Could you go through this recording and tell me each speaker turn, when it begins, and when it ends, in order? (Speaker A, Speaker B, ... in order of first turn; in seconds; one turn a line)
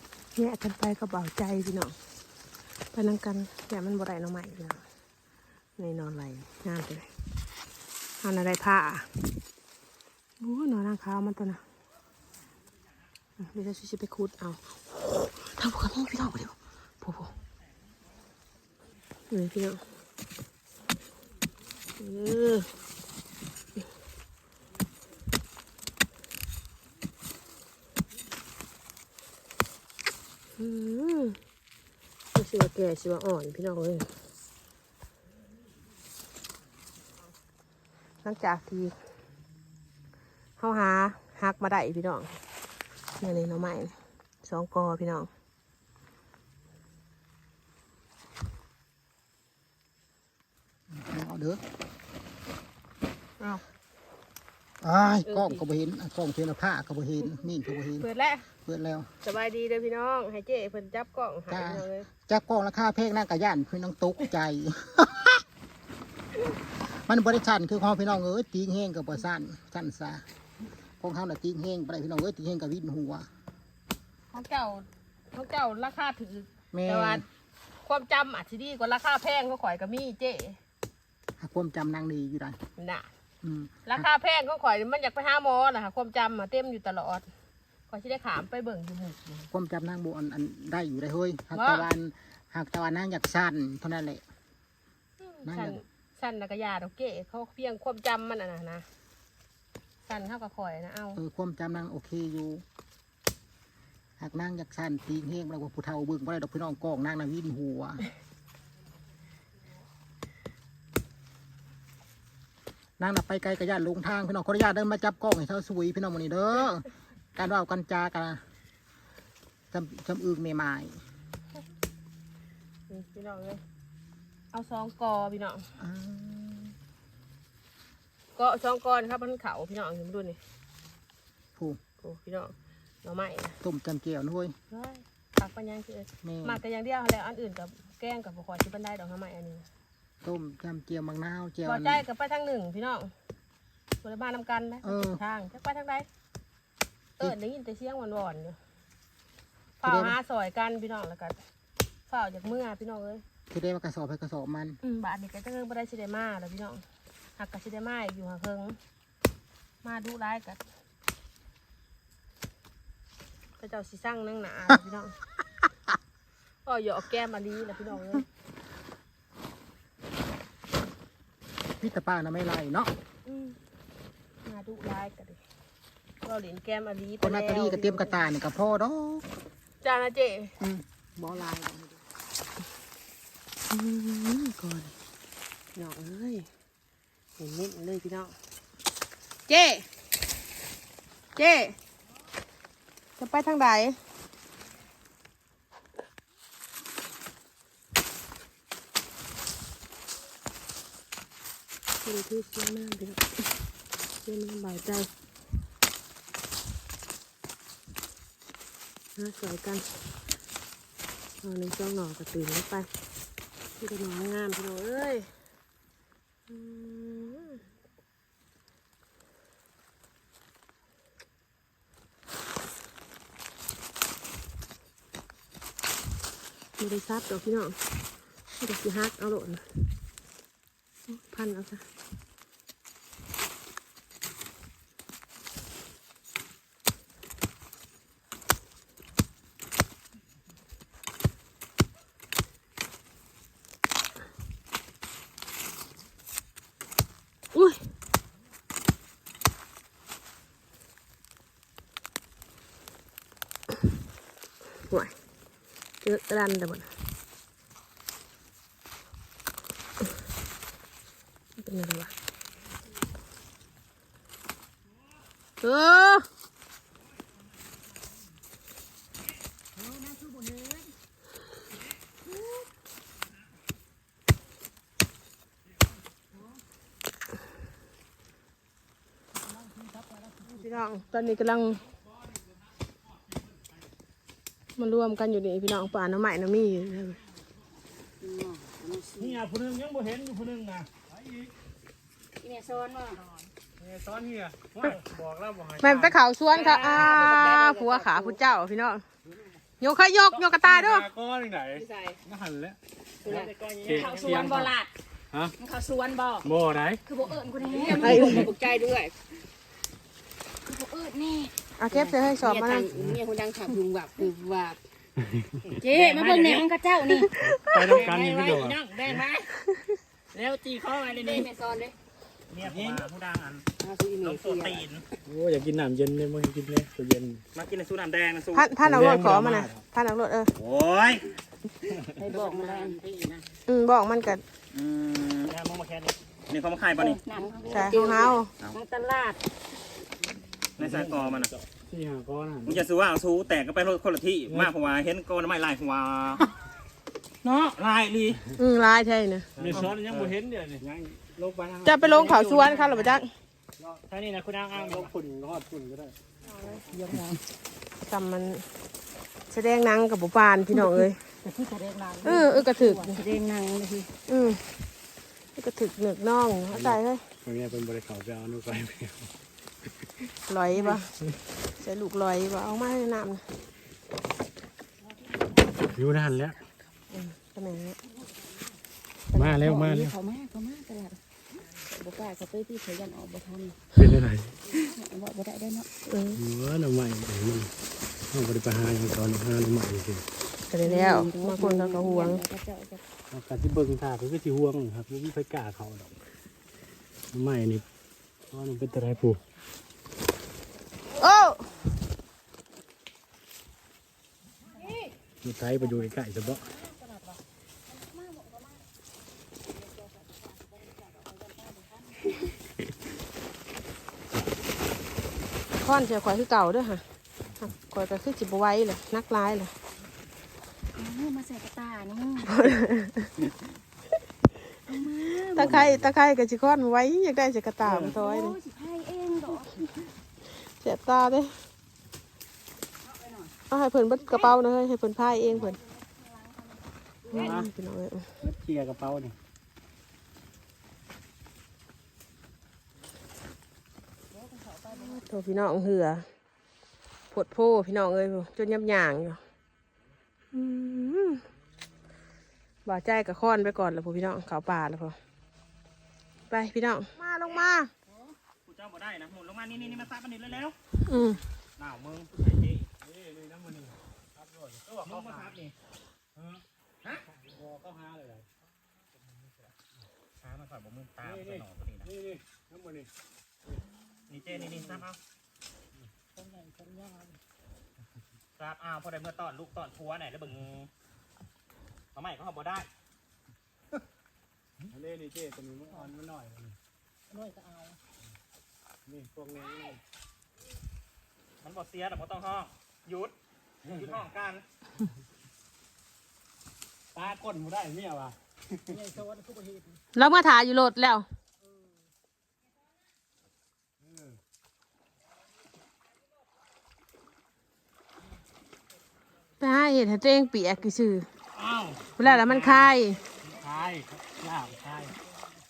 Speaker A: 0.3-1.9
Speaker A: 2.9-4.8
Speaker A: 5.8-7.1
Speaker A: 8.2-9.4
Speaker A: 10.4-11.6
Speaker A: 13.4-17.3
Speaker A: 19.3-19.8
Speaker A: 22.0-22.7
Speaker A: 30.6-31.4
Speaker A: 32.3-34.1
Speaker A: 38.2-38.9
Speaker A: 40.6-42.4
Speaker A: 43.2-45.3
Speaker B: 50.9-51.6
Speaker B: 54.8-58.0
Speaker A: 55.2-55.6
Speaker A: 58.0-58.5
Speaker B: 58.6-59.1
Speaker A: 59.2-62.1
Speaker B: 61.5-65.4
Speaker B: 67.0-70.2
Speaker B: 71.0-73.3
Speaker A: 74.3-77.2
Speaker B: 76.7-77.2
Speaker A: 77.8-80.6
Speaker B: 81.4-82.6
Speaker A: 82.8-83.1
Speaker B: 83.4-84.0
Speaker A: 83.8-87.2
Speaker A: 87.9-89.5
Speaker B: 89.5-94.2
Speaker A: 91.5-91.9
Speaker A: 95.2-98.8
Speaker B: 95.4-95.8
Speaker A: 100.0-101.2
Speaker B: 101.2-102.6
Speaker B: 104.2-108.0
Speaker B: 113.0-118.4
Speaker B: 119.7-121.0
Speaker A: 122.9-123.6
Speaker A: 124.5-125.7
Speaker B: 125.8-126.7
Speaker A: 128.3-130.4
Speaker A: 132.0-133.6
Speaker B: 133.6-134.6
Speaker A: 134.7-139.7
Speaker B: 136.2-136.6
Speaker B: 140.2-142.0
Speaker A: 141.6-143.1
Speaker A: 144.0-146.1
Speaker B: 144.8-145.2
Speaker A: 147.2-148.6
Speaker A: 149.8-151.4
Speaker B: 149.8-150.2
Speaker A: 152.1-153.2
Speaker B: 153.5-154.8
Speaker A: 154.8-156.8
Speaker A: 157.4-158.8
Speaker A: 159.8-160.6
Speaker A: 163.6-165.2
Speaker A: 166.7-168.2
Speaker B: 171.8-172.9
Speaker A: 173.2-173.6
Speaker A: 174.4-175.4
Speaker A: 176.2-178.2
Speaker B: 177.2-179.2
Speaker A: 179.8-180.5
Speaker B: 180.6-182.0
Speaker A: 183.7-184.9
Speaker A: 185.8-186.5
Speaker A: 187.4-188.3
Speaker A: 189.5-189.9
Speaker A: 191.3-191.8
Speaker A: 193.2-194.0
Speaker A: 202.0-203.2
Speaker A: 204.2-205.1
Speaker A: 209.2-209.9
Speaker A: 211.4-212.9
Speaker A: 213.8-215.3
Speaker A: 216.5-217.6
Speaker A: 226.8-227.8
Speaker A: 228.6-229.8
Speaker A: 231.1-231.8
Speaker A: 247.5-247.8
Speaker A: 254.9-255.1
Speaker A: 256.0-256.9
Speaker A: 261.6-262.1
Speaker A: 265.6-266.3
Speaker C: 270.2-270.6
Speaker A: 280.4-281.8
Speaker A: 284.8-287.2
Speaker C: 288.2-289.4
Speaker D: 291.1-291.5
Speaker C: 292.4-293.4
Speaker D: 293.8-296.2
Speaker A: 295.8-299.0
Speaker C: 296.5-298.4
Speaker D: 299.3-299.6
Speaker A: 299.8-301.1
Speaker D: 300.6-304.7
Speaker C: 301.7-302.2
Speaker C: 303.2-304.9
Speaker C: 305.6-306.5
Speaker D: 306.4-307.0
Speaker C: 307.1-309.1
Speaker D: 307.7-308.5
Speaker A: 307.9-308.5
Speaker C: 310.6-314.8
Speaker A: 311.8-312.9
Speaker C: 315.8-317.3
Speaker E: 315.9-316.7
Speaker D: 317.4-319.2
Speaker E: 317.9-319.3
Speaker C: 317.9-318.2
Speaker C: 319.0-319.5
Speaker E: 320.3-321.5
Speaker C: 321.1-321.9
Speaker E: 322.5-323.6
Speaker C: 323.8-324.9
Speaker E: 324.2-325.0
Speaker D: 325.2-327.4
Speaker E: 327.5-328.7
Speaker A: 328.5-330.5
Speaker D: 328.7-329.8
Speaker E: 330.6-331.3
Speaker C: 332.1-333.0
Speaker B: 332.2-333.4
Speaker A: 333.7-334.4
Speaker E: 334.7-335.6
Speaker E: 336.5-337.2
Speaker C: 337.0-339.4
Speaker A: 337.7-338.5
Speaker E: 340.8-341.5
Speaker D: 340.8-342.8
Speaker E: 342.6-346.5
Speaker D: 344.5-344.7
Speaker E: 347.4-348.4
Speaker A: 348.6-349.5
Speaker D: 349.6-352.4
Speaker E: 349.6-350.2
Speaker A: 351.8-353.3
Speaker D: 353.8-356.1
Speaker A: 356.4-356.9
Speaker D: 356.9-357.2
Speaker C: 356.9-357.4
Speaker A: 358.0-358.7
Speaker A: 359.5-361.2
Speaker C: 361.4-364.1
Speaker A: 362.2-363.1
Speaker A: 364.3-364.7
Speaker A: 365.6-367.2
Speaker D: 366.7-369.3
Speaker A: 370.5-371.1
Speaker A: 371.7-373.4
Speaker D: 375.9-376.6
Speaker A: 377.1-378.0
Speaker C: 379.3-381.2
Speaker D: 379.3-380.1
Speaker C: 381.7-383.8
Speaker D: 383.9-384.6
Speaker C: 384.7-385.9
Speaker A: 386.1-386.4
Speaker D: 386.4-387.7
Speaker D: 388.3-390.2
Speaker A: 390.7-392.4
Speaker C: 390.8-393.0
Speaker D: 393.3-396.2
Speaker D: 397.3-397.8
Speaker D: 398.5-399.4
Speaker A: 401.2-401.6
Speaker C: 404.8-405.1
Speaker D: 405.4-406.6
Speaker C: 405.8-408.8
Speaker C: 409.7-412.2
Speaker A: 415.8-417.0
Speaker A: 417.6-419.7
Speaker C: 420.9-422.6
Speaker A: 422.5-423.3
Speaker C: 424.9-425.7
Speaker A: 425.5-428.6
Speaker C: 427.9-429.7
Speaker A: 430.6-431.6
Speaker C: 433.0-433.5
Speaker A: 433.7-435.8
Speaker C: 435.5-437.6
Speaker A: 437.3-438.3
Speaker D: 437.4-437.7
Speaker D: 438.4-439.4
Speaker C: 444.3-445.2
Speaker A: 444.9-446.2
Speaker A: 447.3-449.4
Speaker A: 450.5-451.4
Speaker A: 452.9-455.2
Speaker A: 456.5-457.9
Speaker E: 458.6-460.7
Speaker D: 459.7-460.1
Speaker A: 461.0-461.4
Speaker E: 461.8-462.9
Speaker D: 463.0-465.6
Speaker E: 465.0-465.7
Speaker D: 466.4-466.6
Speaker D: 467.2-468.4
Speaker E: 470.4-472.1
Speaker D: 471.2-473.1
Speaker E: 474.3-475.2
Speaker D: 474.4-475.1
Speaker D: 475.9-477.3
Speaker E: 478.6-480.9
Speaker E: 482.1-482.9
Speaker D: 484.9-486.8
Speaker D: 489.1-490.0
Speaker E: 491.6-494.6
Speaker D: 494.0-494.2
Speaker D: 497.1-499.2
Speaker A: 500.1-501.2
Speaker D: 504.0-504.4
Speaker A: 509.6-511.3
Speaker D: 511.6-512.9
Speaker A: 512.2-513.2
Speaker D: 513.5-515.1